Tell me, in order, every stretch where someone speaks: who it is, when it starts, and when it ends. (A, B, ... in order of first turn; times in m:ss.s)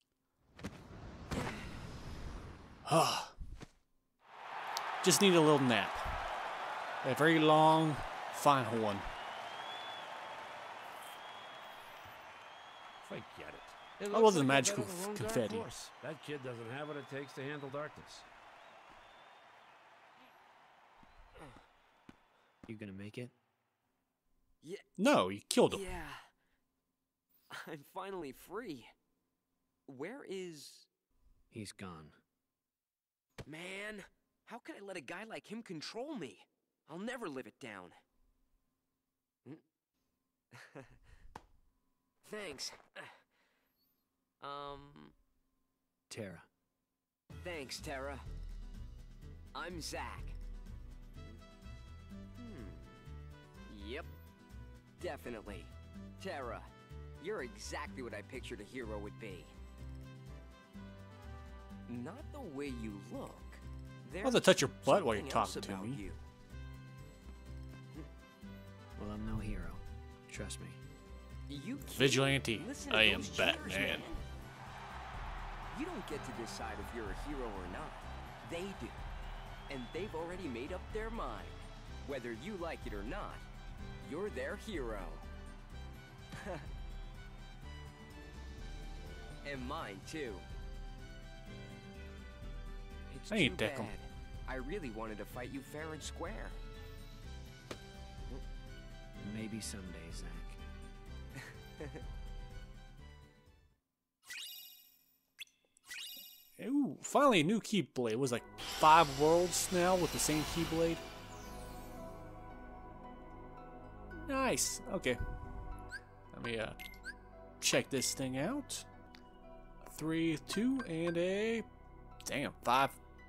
0:02.8-0:03.3 A
0:05.0-0:06.0 A
0:07.0-0:09.1 A
0:13.0-0:18.3 B
0:14.1-0:15.7 A
0:22.6-0:23.3 C
0:24.6-0:24.9 D
0:25.0-0:25.8 A
0:25.7-0:26.2 D
0:27.5-0:28.9 D
0:29.9-0:30.9 D
0:31.5-0:32.2 C
0:33.4-0:38.0 D
0:40.5-0:40.8 D
0:42.2-0:43.2 D
0:44.4-0:45.1 D
0:46.1-0:46.5 C
0:47.4-0:48.2 D
0:49.5-0:50.4 D
0:52.4-0:53.0 D
0:53.7-0:54.1 D
0:55.0-0:59.5 D
1:01.9-1:06.2 D
1:04.2-1:06.0 A
1:09.0-1:10.8 C
1:11.5-1:14.2 D
1:11.9-1:14.0 A
1:15.7-1:19.0 D
1:19.7-1:23.4 D
1:24.0-1:25.2 D
1:26.4-1:26.7 D
1:29.4-1:30.5 D
1:33.1-1:36.6 D
1:33.3-1:33.9 A
1:39.2-1:40.6 C
1:46.6-1:51.0 A
1:54.1-1:55.2 A
1:56.3-1:56.8 A
1:57.6-1:58.8 A
1:59.8-2:01.6 A
2:02.2-2:03.0 A